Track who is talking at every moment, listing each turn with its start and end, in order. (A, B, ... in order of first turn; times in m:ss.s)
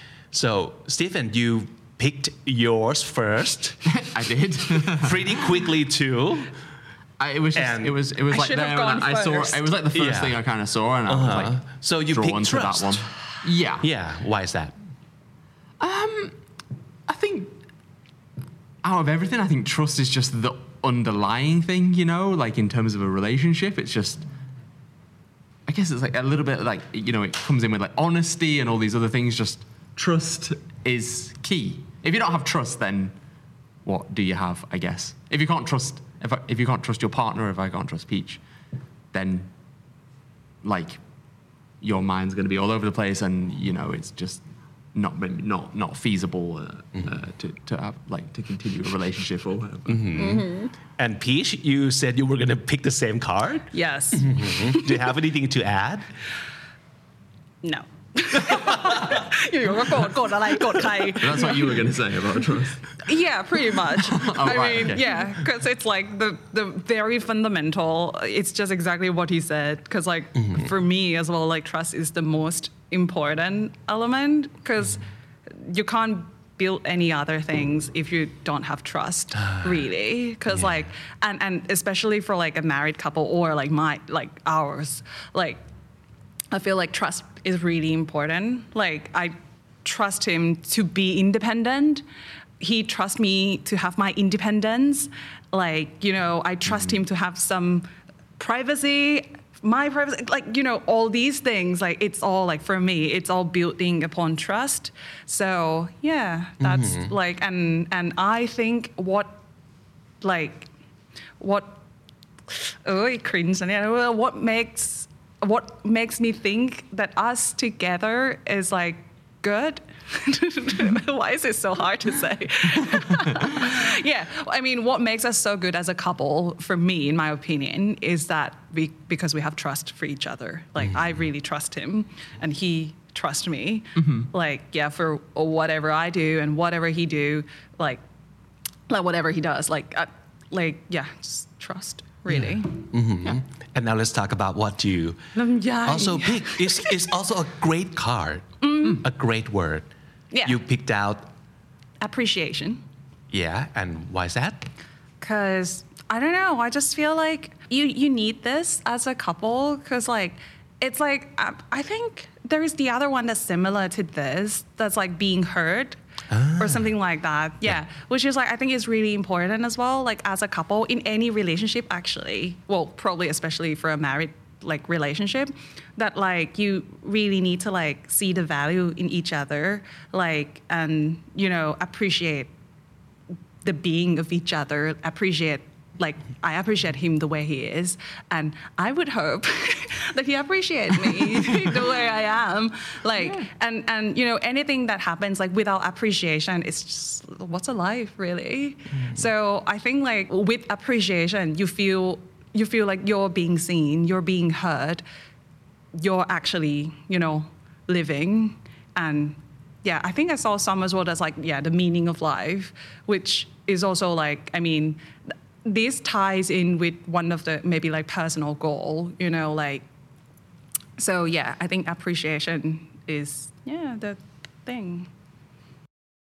0:00.3-0:03.8 A
0:03.8-0:05.4 B
0:04.9-0:06.5 A
0:07.2-0:13.9 B
0:07.5-0:08.0 A
0:08.3-0:09.7 C
0:09.9-0:10.4 A
0:11.1-0:13.0 A
0:13.8-0:14.7 A
0:15.8-0:16.4 B
0:17.1-0:17.6 B
0:18.8-0:24.2 B
0:25.6-0:33.1 B
0:33.8-0:38.4 B
0:39.1-0:39.5 B
0:40.6-0:41.0 B
0:41.8-0:44.4 B
0:44.9-0:50.3 B
0:49.9-0:56.1 A
0:50.2-0:50.7 C
0:53.7-0:55.0 C
0:57.6-1:01.8 C
0:58.6-0:59.0 A
1:01.2-1:03.0 B
1:03.0-1:25.6 C
1:04.0-1:05.3 B
1:19.4-1:19.7 A
1:20.5-1:20.8 A
1:26.5-1:32.0 C
1:32.6-1:49.4 C
1:46.6-1:47.1 A
1:50.2-1:50.7 C
1:51.4-1:51.8 C
1:52.5-2:18.0 C
2:14.0-2:14.3 B
2:18.9-2:22.8 C
2:22.9-2:25.2 A
2:25.3-2:27.1 C
2:25.8-2:29.9 A
2:28.6-2:29.0 C
2:30.3-2:30.6 C
2:30.4-2:31.3 A
2:32.0-2:32.8 C
2:33.3-2:34.7 A
2:35.2-2:46.0 C
2:46.3-2:46.8 A
2:46.6-3:02.5 C
3:03.6-3:25.0 C
3:26.0-3:35.0 C
3:35.6-3:39.8 C
3:41.0-3:45.1 C